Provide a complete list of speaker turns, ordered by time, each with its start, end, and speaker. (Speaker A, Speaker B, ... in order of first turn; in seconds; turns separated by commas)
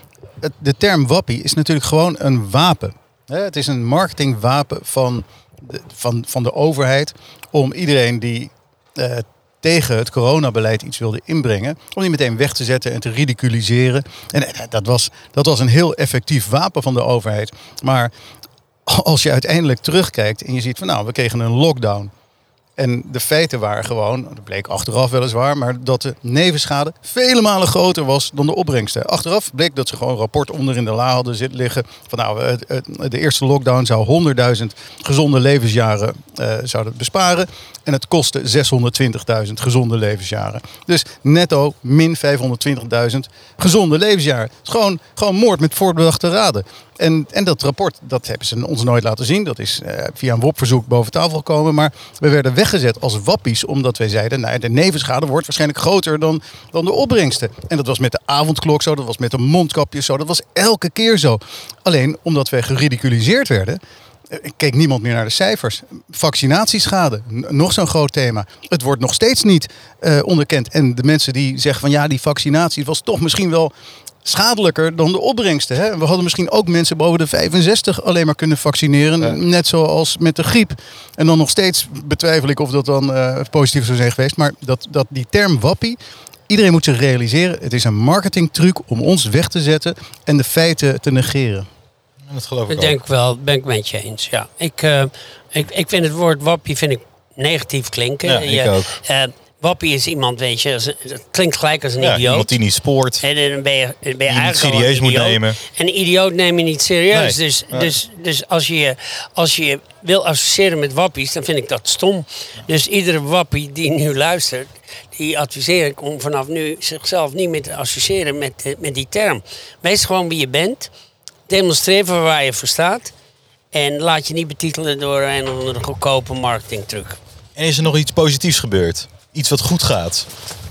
Speaker A: 0.4-18.1, Speaker A: 18.9-22.1, Speaker A: 22.8-63.8, Speaker A: 64.3-73.7, Speaker A: 74.2-86.0, Speaker A: 86.5-91.7, Speaker B: 92.3-93.0, Speaker C: 92.7-102.5, Speaker B: 98.2-99.0, Speaker B: 102.0-103.2, Speaker C: 103.2-120.9, Speaker B: 104.3-105.6, Speaker B: 107.1-107.9, Speaker C: 121.5-123.1, Speaker C: 123.7-127.2, Speaker B: 127.6-130.3